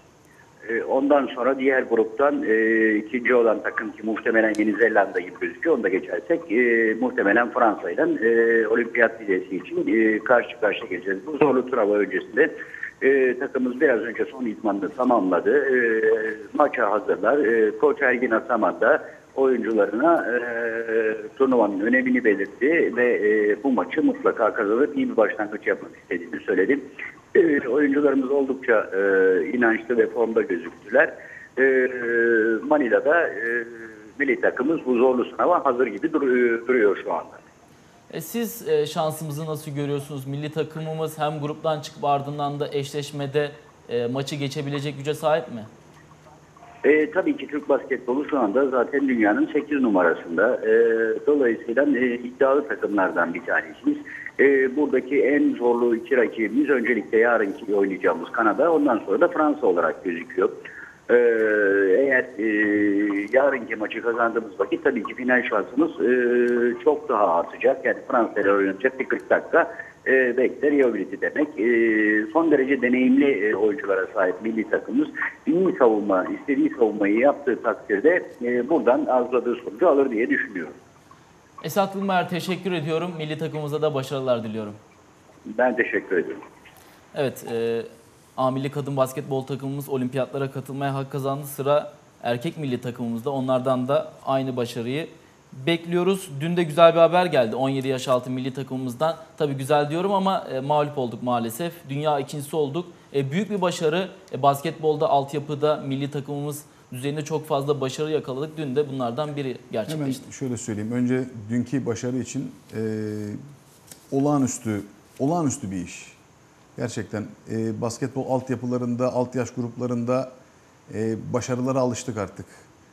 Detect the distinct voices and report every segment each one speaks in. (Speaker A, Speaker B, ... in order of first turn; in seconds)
Speaker A: 0.7-37.4, 46.8-60.5, 61.1-80.8, 85.5-86.4
Speaker B: 38.1-45.7, 81.6-84.8, 87.1-110.2
Speaker C: 109.9-113.4, 114.1-116.2, 116.8-120.3, 120.9-122.7